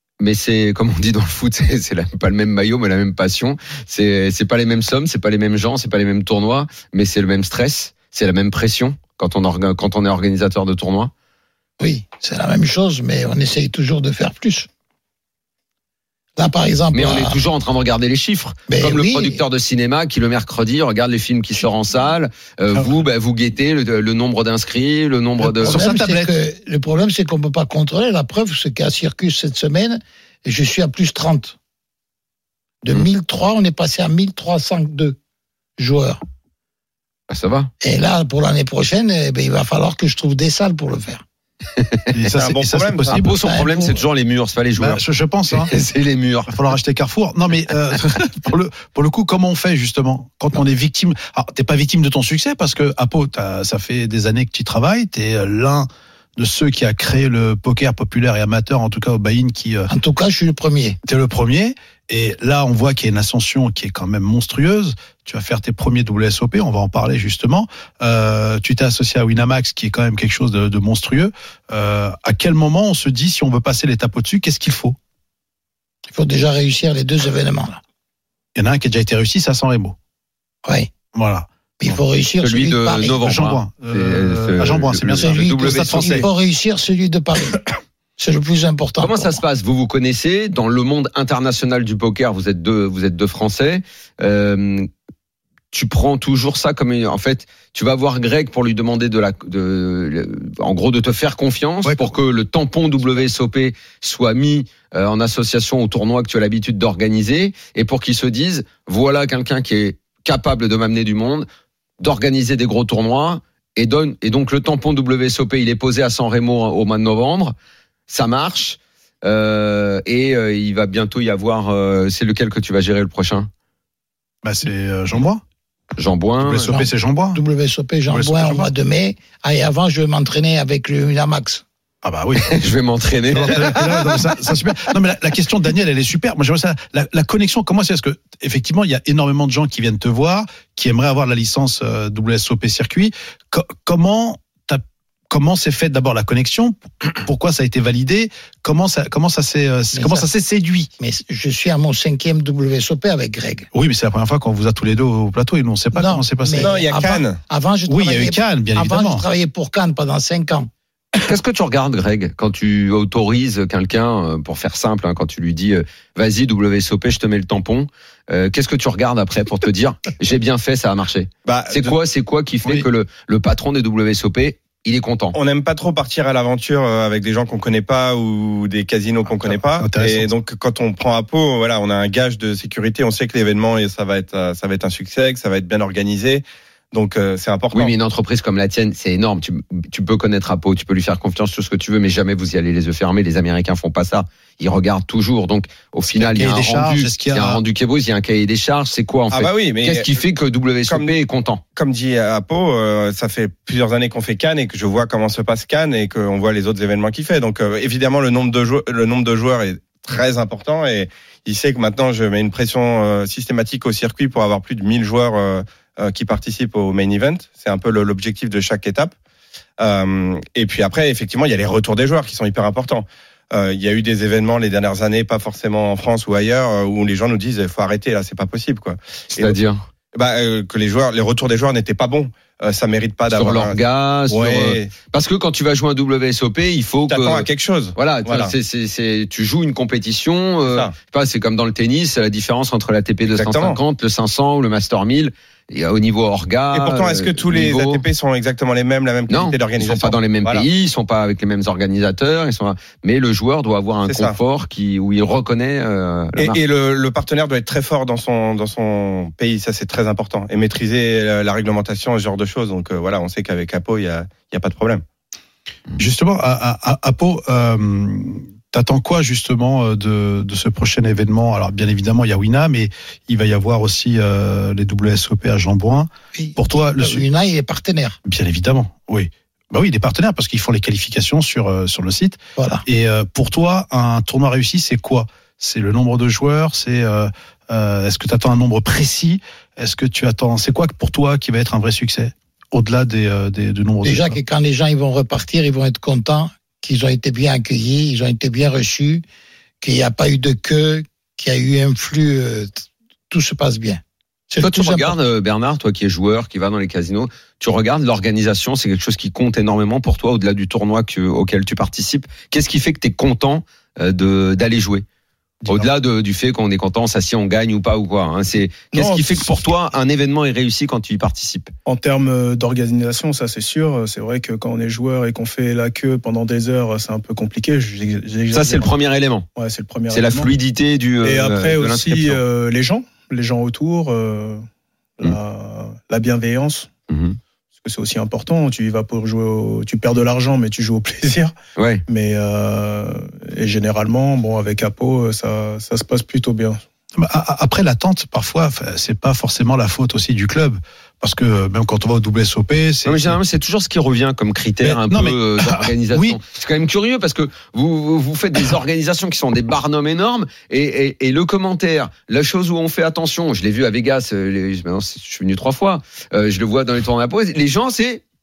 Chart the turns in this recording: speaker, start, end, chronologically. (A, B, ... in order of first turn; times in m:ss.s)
0:00.2-0:11.1 A
0:11.8-0:14.7 B
0:16.4-0:17.4 B
0:16.9-0:25.8 A
0:18.7-0:19.4 B
0:25.4-0:26.3 C
0:25.6-0:31.6 B
0:32.8-0:35.2 B
0:35.8-0:36.2 B
0:37.3-0:37.7 A
0:37.8-0:41.2 B
0:42.1-0:43.4 C
0:42.3-0:43.2 D
0:43.1-0:46.6 A
0:43.4-0:44.0 B
0:44.8-0:45.7 C
0:46.5-0:59.9 C
0:59.9-1:01.0 B
1:01.0-1:15.0 C
1:16.1-1:17.8 B
1:18.5-1:20.0 C
1:20.6-1:20.9 B
1:21.1-1:22.0 C
1:21.8-1:23.2 B
1:22.4-1:26.3 A
1:23.2-1:26.3 C
1:25.2-1:27.6 B
1:28.2-1:29.4 B
1:29.0-1:34.9 A
1:35.7-1:51.4 A
1:41.8-1:42.1 C
1:52.0-1:57.5 A
1:58.1-2:03.5 A
2:04.4-2:05.4 C
2:06.0-2:06.7 A
2:06.4-2:07.4 C
2:06.7-2:11.6 B
2:08.1-2:08.7 C
2:12.0-2:12.6 C
2:12.4-2:14.2 A
2:13.3-2:30.9 C
2:29.9-2:30.2 B
2:31.0-2:33.7 B
2:33.7-2:36.8 C
2:35.9-2:40.7 B
2:36.6-2:37.4 D
2:37.9-2:39.2 C
2:41.2-2:55.4 A
2:51.4-2:52.0 D
2:55.3-3:07.9 D
2:59.4-3:00.3 C
3:07.7-3:21.6 A
3:16.1-3:17.6 C
3:19.3-3:20.1 D
3:20.9-3:21.2 D
3:21.8-3:39.1 D
3:39.8-3:49.6 D
3:49.4-3:49.8 A
3:50.1-3:53.8 D
3:53.3-4:08.0 A
3:54.3-3:54.9 D
3:57.1-3:58.5 D
4:00.6-4:00.9 D
4:03.2-4:03.8 D
4:06.7-4:10.6 D
4:09.3-4:16.6 A
4:14.0-4:14.4 D
4:16.4-4:25.0 D
4:26.0-4:37.2 C
4:36.3-4:38.2 B
4:38.2-4:54.4 C
4:42.6-4:42.8 B
4:54.0-4:59.2 B
4:59.8-5:05.1 B
5:04.6-5:15.0 A
5:15.7-5:21.7 A
5:18.9-5:19.6 E
5:21.8-5:28.9 E
5:28.5-5:29.4 A
5:29.6-5:30.5 E
5:30.1-5:32.4 A
5:31.2-5:34.6 E
5:35.2-5:36.9 E
5:37.1-5:37.4 A
5:37.8-5:41.5 E
5:41.8-5:42.0 A
5:42.1-5:46.8 E
5:47.2-5:53.4 C
5:53.0-6:08.2 A
5:54.8-5:56.4 C